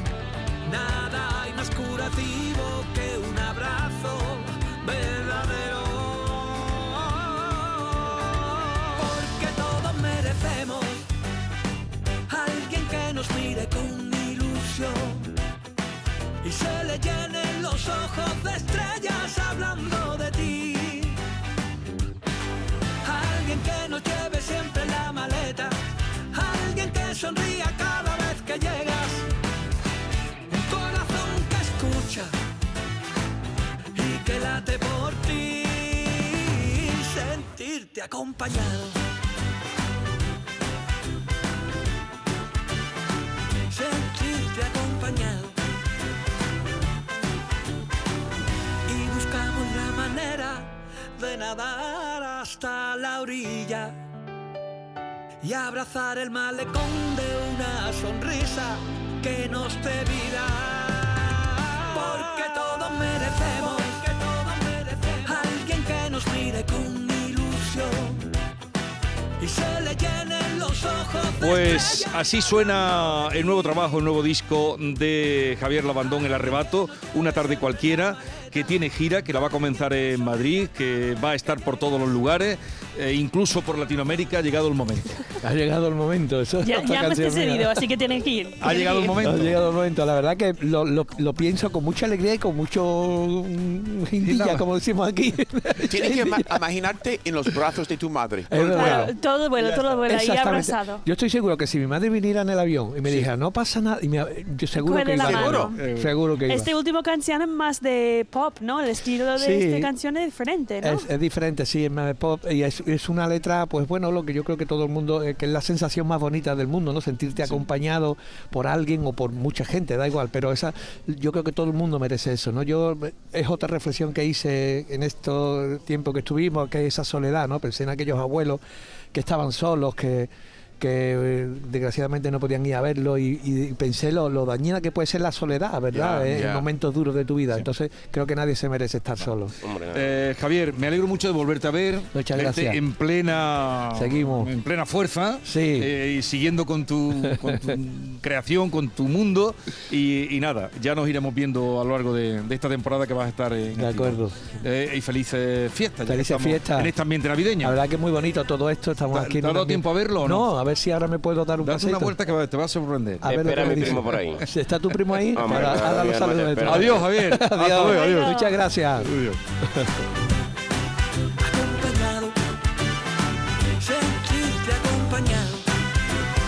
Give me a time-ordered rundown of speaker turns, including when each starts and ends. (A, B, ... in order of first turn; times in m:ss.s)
0:00.6-0:11.1 A
0:12.3-0:15.3 A
0:16.4-0:21.2 A
0:23.0-0:25.8 A
0:26.3-0:29.3 A
0:30.5-0:32.3 A
0:33.9-0:39.0 A
0:43.7-0:45.6 A
0:48.9-0:54.0 A
0:55.4-1:08.3 A
1:09.4-1:12.2 A
1:11.4-1:25.2 B
1:25.4-1:27.8 C
1:26.6-1:29.2 D
1:28.6-1:29.6 B
1:29.2-1:36.6 C
1:34.2-1:34.6 B
1:35.8-1:39.1 E
1:38.5-1:46.7 C
1:38.7-1:41.0 D
1:44.8-1:45.8 D
1:45.2-1:46.2 B
1:46.5-1:51.1 D
1:49.4-1:49.9 C
1:50.8-2:08.6 C
2:09.1-2:19.5 C
2:15.9-2:16.7 E
2:19.6-2:20.2 F
2:19.9-2:37.8 B
2:22.1-2:22.8 C
2:23.9-2:24.5 C
2:25.4-2:25.9 C
2:27.2-2:27.6 C
2:33.7-2:34.4 C
2:36.0-2:36.9 C
2:37.6-2:42.1 C
2:39.1-2:40.5 B
2:41.6-2:44.2 B
2:43.2-2:49.1 C
2:43.3-2:44.5 F
2:44.9-2:45.9 B
2:45.3-2:47.1 F
2:46.6-2:48.4 B
2:47.8-2:48.6 D
2:49.0-2:49.4 B
2:49.7-2:50.0 C
2:51.4-2:52.4 A
2:53.8-2:55.7 A